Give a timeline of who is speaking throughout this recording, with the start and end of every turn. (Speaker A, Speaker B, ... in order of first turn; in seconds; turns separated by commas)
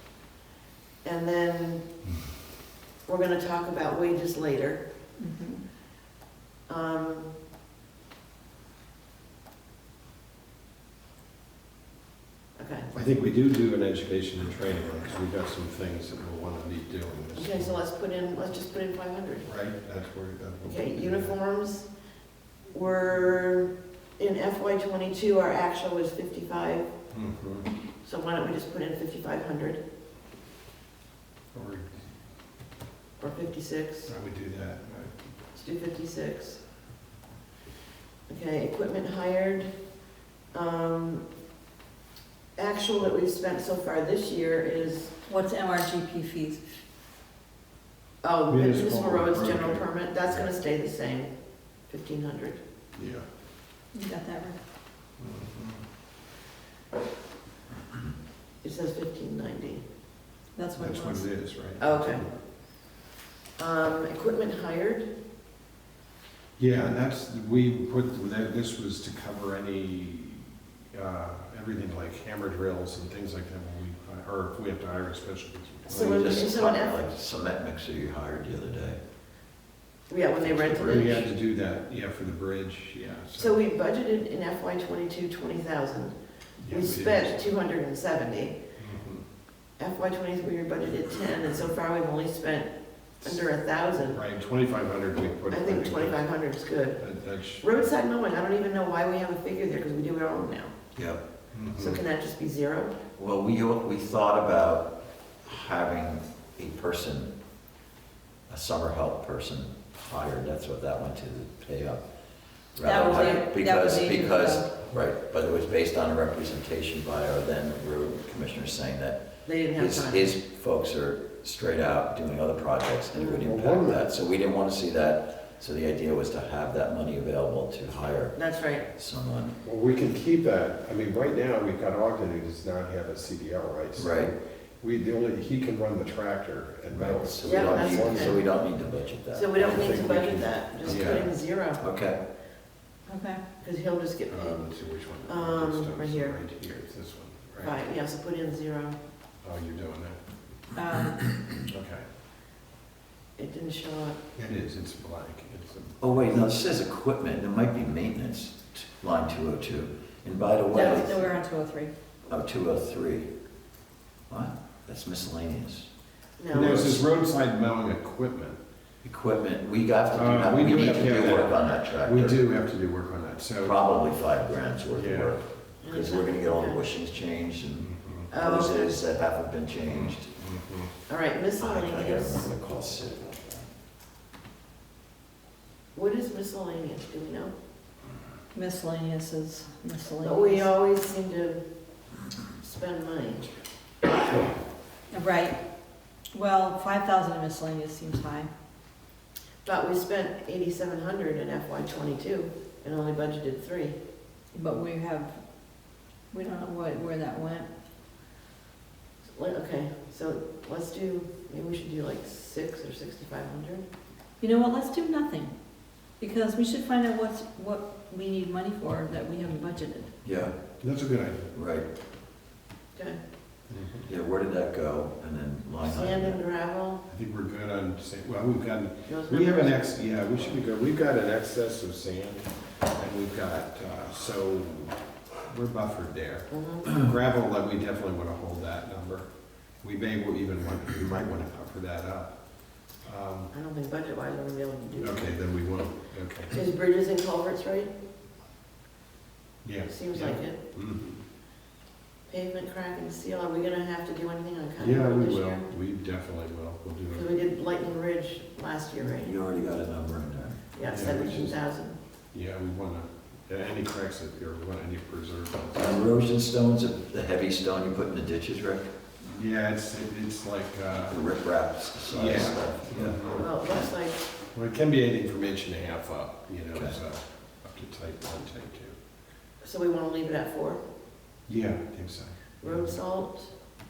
Speaker A: 1.0-1.9, Speaker A: 3.1-4.8, Speaker B: 5.2-5.6, Speaker A: 6.7-7.3, Speaker A: 12.6-12.9, Speaker C: 12.9-17.8, Speaker A: 17.4-19.5, Speaker C: 19.4-21.4, Speaker A: 20.6-21.9, Speaker A: 22.7-26.9, Speaker C: 27.1-27.7, Speaker A: 28.0-29.8, Speaker C: 31.5-32.0, Speaker A: 33.2-34.1, Speaker C: 34.1-35.2, Speaker A: 35.5-36.6, Speaker A: 38.3-39.7, Speaker A: 40.5-41.2, Speaker A: 42.6-45.1, Speaker B: 45.3-46.6, Speaker A: 48.2-51.3, Speaker C: 48.5-50.5, Speaker A: 51.9-52.6, Speaker C: 52.9-53.3, Speaker B: 53.9-54.6, Speaker C: 55.2-55.9, Speaker A: 58.6-59.8, Speaker B: 60.6-61.3, Speaker C: 60.8-62.4, Speaker A: 61.8-62.2, Speaker A: 63.6-65.1, Speaker C: 66.6-76.3, Speaker A: 75.9-77.0, Speaker D: 75.9-79.0, Speaker A: 80.1-81.3, Speaker D: 80.4-81.2, Speaker C: 80.8-83.6, Speaker A: 83.3-86.1, Speaker C: 86.6-87.5, Speaker A: 86.7-88.6, Speaker C: 88.8-89.2, Speaker A: 89.8-92.7, Speaker A: 93.2-94.2, Speaker C: 94.1-96.2, Speaker A: 95.5-97.0, Speaker C: 97.0-97.9, Speaker A: 97.6-100.7, Speaker D: 101.0-101.2, Speaker C: 101.5-102.0, Speaker A: 101.8-103.0, Speaker D: 103.2-107.3, Speaker D: 108.5-112.0, Speaker D: 112.7-119.2, Speaker B: 112.8-114.7, Speaker A: 119.5-120.3, Speaker D: 119.8-128.4, Speaker A: 123.2-123.4, Speaker C: 123.5-124.0, Speaker A: 128.3-128.9, Speaker D: 128.9-129.6, Speaker C: 129.6-138.4, Speaker D: 134.0-134.3, Speaker D: 136.9-140.0, Speaker A: 137.4-138.4, Speaker A: 139.3-141.8, Speaker C: 139.6-141.3, Speaker D: 140.9-141.2, Speaker D: 141.8-142.2, Speaker B: 143.1-143.4, Speaker A: 143.6-144.7, Speaker C: 144.3-147.8, Speaker A: 145.3-146.4, Speaker A: 147.6-149.0, Speaker C: 149.4-150.2, Speaker B: 150.8-151.2, Speaker C: 151.6-152.1, Speaker A: 153.4-154.2, Speaker C: 154.4-156.5, Speaker D: 156.0-161.3, Speaker B: 160.7-161.9, Speaker D: 162.3-163.3, Speaker D: 164.3-165.9, Speaker A: 166.4-167.1, Speaker C: 166.5-168.6, Speaker D: 169.0-172.4, Speaker C: 170.1-173.8, Speaker D: 173.6-180.3, Speaker C: 174.9-175.4, Speaker A: 175.8-176.8, Speaker C: 177.8-178.3, Speaker A: 178.3-179.0, Speaker C: 179.9-180.9, Speaker A: 181.1-182.5, Speaker D: 181.6-183.7, Speaker A: 185.9-187.5, Speaker B: 188.5-190.7, Speaker A: 190.2-191.6, Speaker A: 192.6-193.5, Speaker B: 195.1-195.6, Speaker B: 196.3-198.5, Speaker A: 199.7-204.0, Speaker B: 204.5-205.4, Speaker B: 206.3-207.7, Speaker A: 209.3-213.8, Speaker B: 214.4-215.5, Speaker B: 216.2-220.1, Speaker D: 220.2-220.6, Speaker C: 220.8-221.5, Speaker D: 221.5-221.9, Speaker C: 223.7-224.1, Speaker D: 224.1-226.4, Speaker A: 225.9-227.0, Speaker C: 227.1-239.3, Speaker A: 229.1-229.8, Speaker A: 236.5-237.0, Speaker C: 239.8-243.5, Speaker A: 243.5-245.3, Speaker C: 245.0-246.5, Speaker A: 246.5-247.9, Speaker C: 249.6-251.2, Speaker A: 249.9-250.6, Speaker A: 252.3-255.7, Speaker C: 254.8-257.3, Speaker A: 257.1-259.3, Speaker D: 259.1-260.6, Speaker A: 260.7-262.0, Speaker C: 260.8-261.6, Speaker C: 262.3-266.1, Speaker D: 265.8-268.9, Speaker C: 269.2-271.2, Speaker D: 271.1-273.2, Speaker C: 272.1-273.4, Speaker A: 273.4-274.2, Speaker C: 274.5-279.0, Speaker A: 279.6-280.8, Speaker C: 281.5-283.0, Speaker A: 282.6-283.5